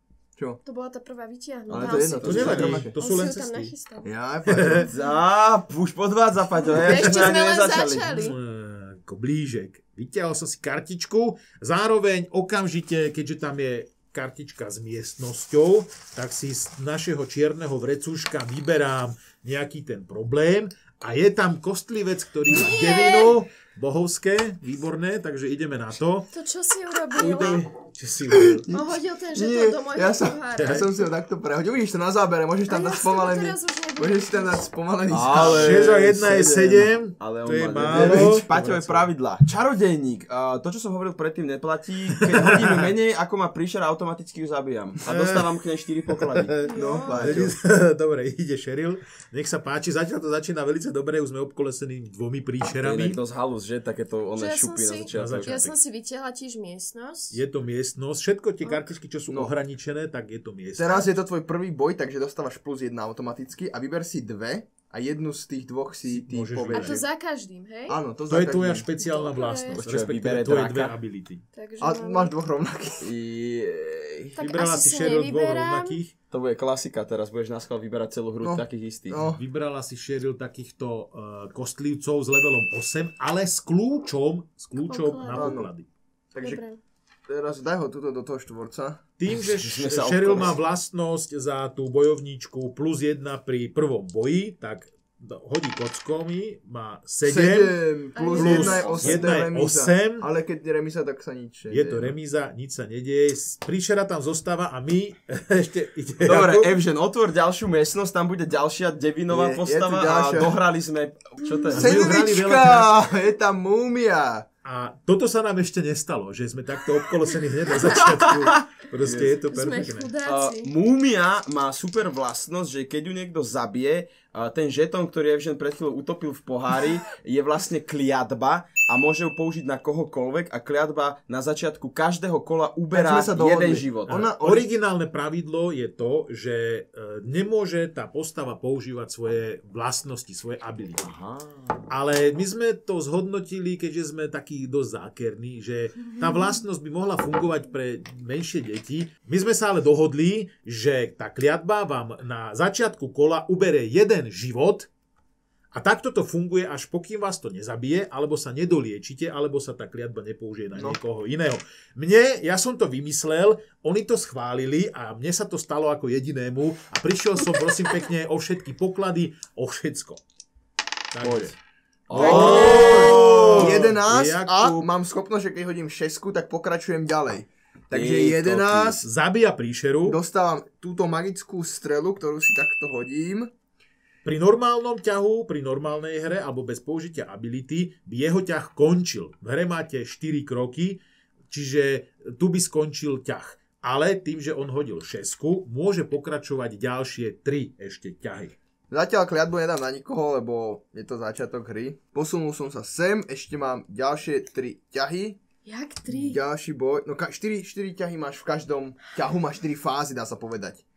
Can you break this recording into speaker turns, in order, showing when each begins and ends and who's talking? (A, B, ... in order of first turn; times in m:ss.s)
0:00.6-0:04.1 A
0:01.7-0:02.9 B
0:01.7-0:03.0 C
0:02.2-0:03.7 D
0:04.0-0:04.9 C
0:04.5-0:04.9 D
0:04.9-0:08.2 B
0:06.7-0:08.4 A
0:06.9-0:07.3 D
0:08.0-0:26.3 D
0:22.5-0:23.4 A
0:26.3-0:27.6 A
0:27.1-0:28.7 D
0:28.3-0:36.3 C
0:28.7-0:31.0 A
0:30.6-0:30.9 D
0:32.7-0:34.7 A
0:35.1-0:46.5 B
0:35.4-0:39.1 D
0:37.8-0:38.5 C
0:42.2-0:42.9 D
0:45.0-0:45.6 D
0:46.1-0:53.2 D
0:46.6-0:47.4 A
0:46.8-0:47.5 C
0:52.7-0:55.5 B
0:54.4-0:57.4 A
0:55.1-0:55.8 D
0:57.3-1:01.1 D
0:58.6-0:58.9 A
0:59.3-0:59.5 C
1:00.8-1:07.0 C
1:06.1-1:07.0 D
1:06.7-1:08.0 A
1:07.9-1:08.9 C
1:08.3-1:11.4 D
1:09.0-1:09.8 A
1:09.7-1:11.0 B
1:11.5-1:12.3 A
1:11.8-1:13.1 C
1:13.0-1:14.4 B
1:14.4-1:16.0 A
1:14.4-1:16.1 D
1:16.3-1:19.3 B
1:18.4-1:19.4 C
1:19.3-1:25.9 D
1:24.8-1:25.6 A
1:25.3-1:25.7 C
1:26.3-1:26.6 C
1:26.4-1:26.8 A
1:27.3-1:29.0 C
1:29.2-1:37.8 D
1:29.3-1:30.6 B
1:37.2-1:42.1 C
1:38.1-1:39.3 A
1:38.4-1:40.3 D
1:38.7-1:39.3 B
1:41.7-1:46.8 D
1:46.2-1:52.2 B
1:49.3-1:50.5 C
1:51.4-1:51.8 A
1:51.7-1:53.0 D
1:51.7-1:54.5 C
1:54.6-2:00.1 D
1:58.2-1:58.5 C
1:59.0-1:59.4 B
1:59.5-2:00.7 A
2:00.2-2:14.2 B
2:12.9-2:14.7 C
2:14.1-2:21.1 D
2:21.0-2:21.8 B
2:21.9-2:34.9 D
2:35.7-2:50.2 D
2:51.1-2:51.6 D
2:51.2-2:51.5 B
2:52.1-2:54.0 B
2:52.1-2:54.9 D
2:52.1-2:59.0 C
2:52.4-2:53.2 A
2:57.9-2:59.0 B
2:59.0-3:00.2 D
3:00.0-3:03.5 C
3:04.2-3:18.5 D
3:18.9-3:25.4 C
3:25.6-3:26.4 A
3:26.1-3:30.8 C